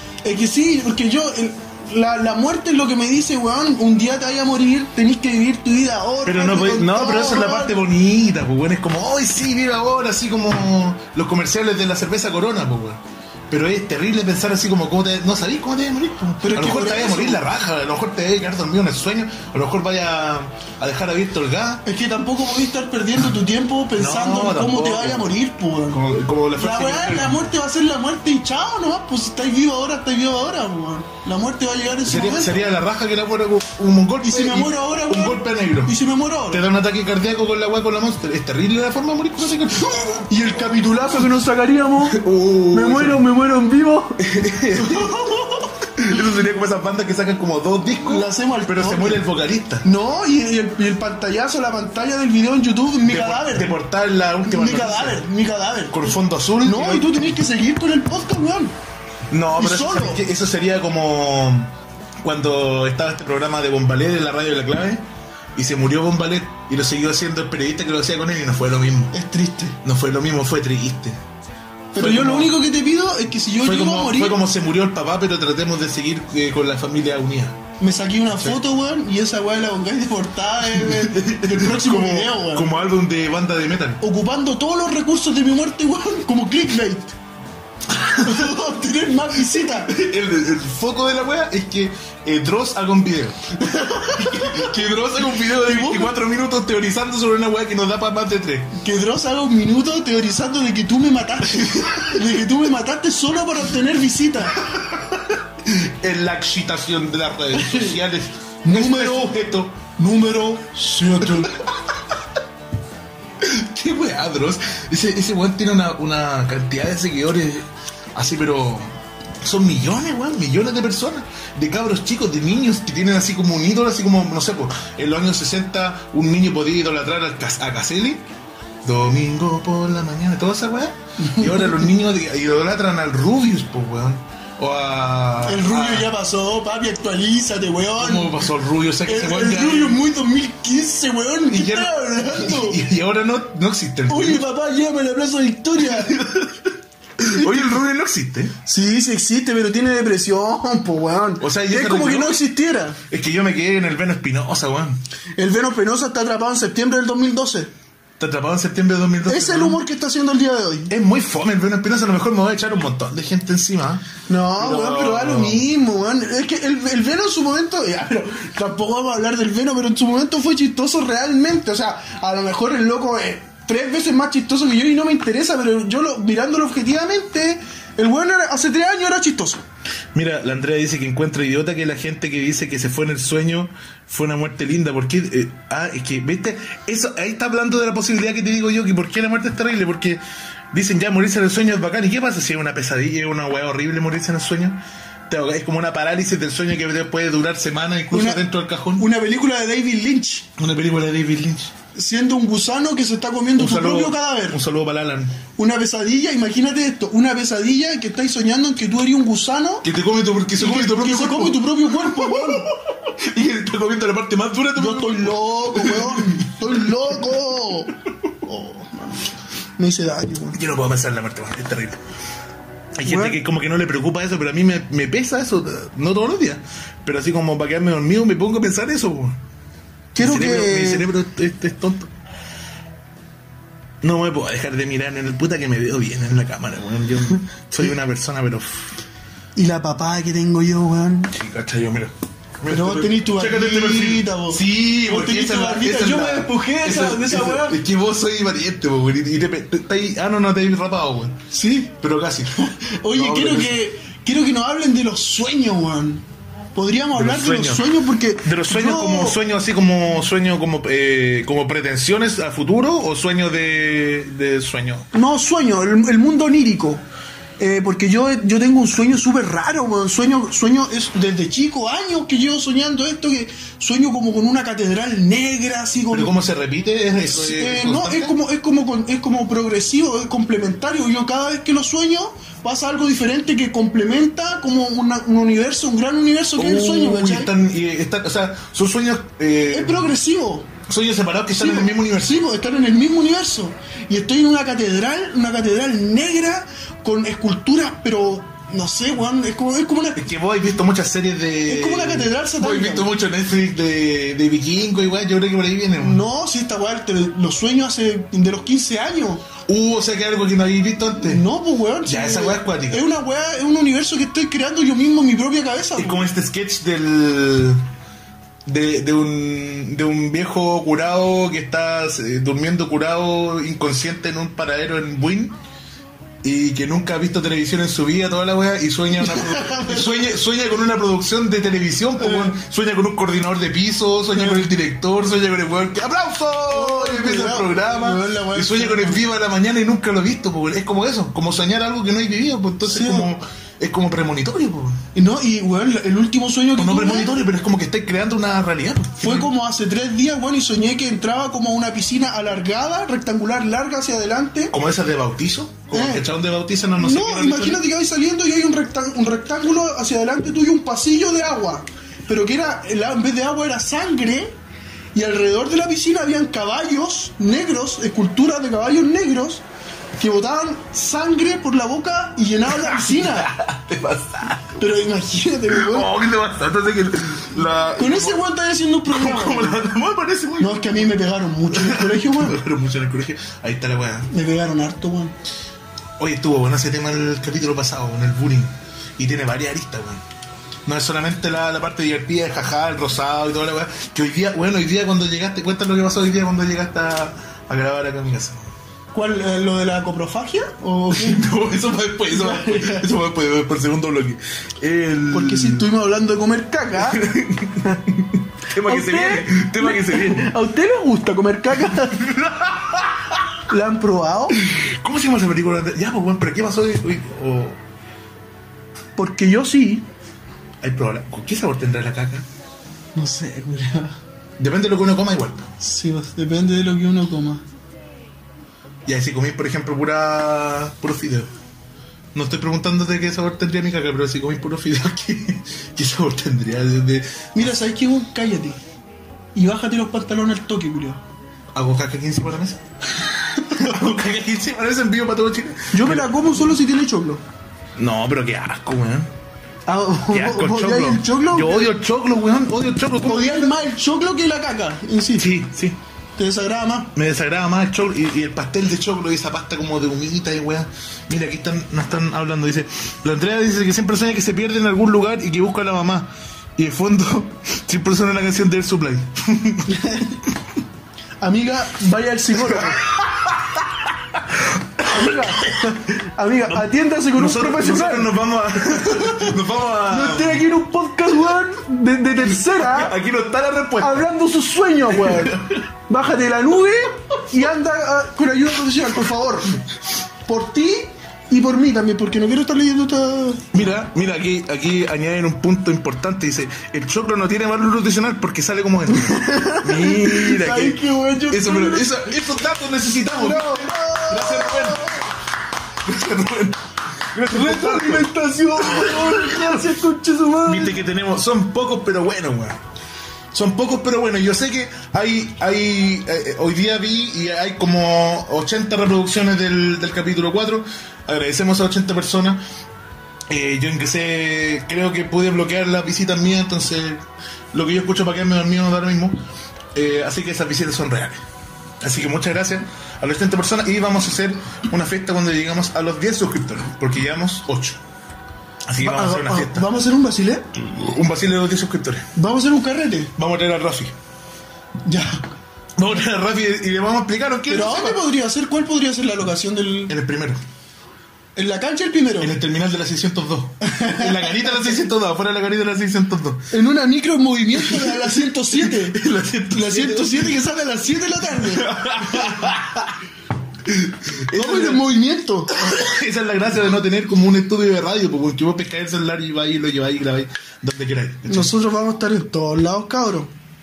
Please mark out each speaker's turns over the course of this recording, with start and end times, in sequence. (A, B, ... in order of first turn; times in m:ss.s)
0:00.2-0:07.8 A
0:06.2-0:21.8 B
0:16.4-0:17.4 A
0:21.8-0:26.0 A
0:24.0-0:25.3 B
0:25.9-0:27.5 B
0:26.6-0:32.6 A
0:32.0-0:36.0 B
0:34.2-0:36.7 A
0:36.5-0:40.3 B
0:40.3-0:44.2 A
0:42.0-0:43.2 B
0:44.2-0:49.8 B
0:44.8-0:45.6 A
0:48.0-0:49.2 A
0:49.8-0:53.7 A
0:53.0-0:55.2 B
0:54.4-0:56.1 A
0:55.9-0:57.4 B
0:56.6-0:58.8 A
0:59.3-1:09.1 B
0:59.6-1:00.2 A
1:09.1-1:09.8 A
1:09.8-1:11.2 B
1:11.9-1:14.4 A
1:12.0-1:12.6 B
1:13.6-1:17.6 B
1:17.8-1:22.7 A
1:20.7-1:24.0 B
1:24.0-1:27.2 A
1:27.9-1:28.6 B
1:28.2-1:29.9 A
1:29.4-1:38.7 B
1:33.6-1:34.8 A
1:35.3-1:36.1 A
1:38.8-1:44.6 A
1:41.5-1:42.1 B
1:44.6-1:49.8 B
1:47.5-1:48.0 A
1:48.6-1:49.4 A
1:49.9-1:51.6 A
1:51.2-1:51.7 B
1:53.4-2:08.2 B
2:08.8-2:16.1 B
2:11.2-2:11.9 A
2:15.4-2:18.4 A
2:18.0-2:20.0 B
2:19.0-2:22.8 A
2:21.5-2:24.4 B
2:24.1-2:26.2 A
2:25.8-2:28.6 B
2:27.2-2:27.8 A
2:28.6-2:33.0 A
2:31.4-2:32.4 B
2:33.1-2:35.0 B
2:35.4-2:37.7 A
2:38.2-2:39.8 B
2:39.2-2:40.9 A
2:40.9-2:44.0 B
2:44.3-2:59.6 A
2:44.6-2:45.6 B
3:00.1-3:19.1 B
3:18.1-3:18.4 A
3:19.0-3:20.5 A
3:20.6-3:21.7 B
3:21.9-3:24.6 A
3:23.6-3:25.4 B
3:25.6-3:29.9 A
3:29.8-3:37.0 B
3:30.6-3:32.7 A
3:34.8-3:40.6 A
3:40.5-3:42.0 B
3:43.0-3:49.4 B
3:43.0-3:43.4 A
3:50.1-3:51.1 A
3:50.2-3:52.1 B
3:54.0-3:58.8 B
3:59.6-4:01.3 A
4:01.3-4:11.4 B
4:02.7-4:07.8 A
4:11.5-4:11.9 A
4:12.0-4:13.8 B
4:12.8-4:19.4 A
4:17.1-4:25.1 B
4:25.1-4:27.0 A
4:27.6-4:36.3 A
4:36.1-4:38.4 B
4:37.3-4:47.5 A
4:46.6-4:50.1 B
4:49.7-4:50.7 A
4:50.9-4:52.5 B
4:51.6-5:00.2 A
5:00.2-5:06.2 B
5:01.7-5:03.1 A
5:06.0-5:09.5 A
5:09.6-5:11.4 B
5:11.2-5:16.3 A
5:12.0-5:13.0 B
5:16.0-5:17.8 B
5:18.6-5:25.6 B
5:26.4-5:45.0 B
5:29.2-5:30.2 A
5:32.2-5:32.6 A
5:36.7-5:39.2 A
5:42.8-5:43.3 A
5:45.1-5:47.4 A
5:46.8-5:49.5 B
5:49.2-5:54.7 A
5:54.7-5:57.8 B
5:55.9-5:56.2 A
5:57.0-6:04.5 A
6:05.1-6:09.6 A
6:10.2-6:13.5 A
6:12.7-6:14.8 B
6:14.8-6:16.1 A
6:15.7-6:18.4 B
6:18.0-6:19.8 A
6:19.1-6:21.2 B
6:20.6-6:22.6 A
6:21.7-6:24.3 B
6:24.3-6:25.4 A
6:26.2-6:30.2 B
6:30.9-6:38.7 B
6:39.1-6:41.5 A
6:41.1-6:45.9 B
6:42.3-6:43.1 A
6:45.3-6:47.2 A
6:47.0-6:50.5 B
6:48.8-6:52.3 A
6:51.9-6:53.4 B
6:53.7-6:54.6 A
6:54.6-6:57.8 B
6:59.2-7:00.0 A
7:00.8-7:02.4 B
7:03.2-7:04.2 A
7:04.6-7:05.7 B
7:05.8-7:07.6 A
7:09.1-7:11.5 B
7:12.3-7:17.5 B
7:17.6-7:18.8 A
7:19.6-7:21.2 A
7:21.7-7:26.3 B
7:25.9-7:27.4 A
7:28.0-7:29.3 B
7:29.9-7:31.9 A
7:30.3-7:33.8 B
7:33.2-7:35.5 A
7:35.4-7:36.0 B
7:36.4-7:37.1 A
7:37.1-7:50.0 B
7:49.9-7:50.4 A
7:51.4-7:53.0 A
7:52.7-7:55.9 B
7:55.0-7:58.3 A
7:56.7-8:00.6 B
8:00.1-8:03.1 A
8:02.5-8:04.3 B
8:04.0-8:09.8 A
8:05.1-8:05.8 B
8:10.4-8:13.6 A
8:13.7-8:25.2 B
8:19.1-8:22.1 A
8:23.3-8:25.2 A
8:26.0-8:29.9 B
8:27.5-8:31.0 A
8:30.6-8:32.8 B
8:33.5-8:42.6 B
8:43.5-8:49.4 B
8:49.9-8:51.4 B
8:52.0-8:58.0 B
8:58.9-8:59.9 B
8:59.0-9:00.6 A
9:00.7-9:02.3 B
9:02.4-9:03.3 A
9:03.4-9:04.1 B
9:05.1-9:05.4 A
9:06.0-9:08.2 B
9:07.7-9:10.1 A
9:10.1-9:10.6 B
9:11.6-9:12.6 A
9:12.4-9:16.7 B
9:13.8-9:15.0 A
9:16.7-9:19.2 A
9:17.8-9:20.6 B
9:19.7-9:22.5 A
9:21.5-9:23.2 B
9:23.8-9:25.0 B
9:24.5-9:25.8 A
9:25.7-9:31.7 B
9:31.5-9:33.5 A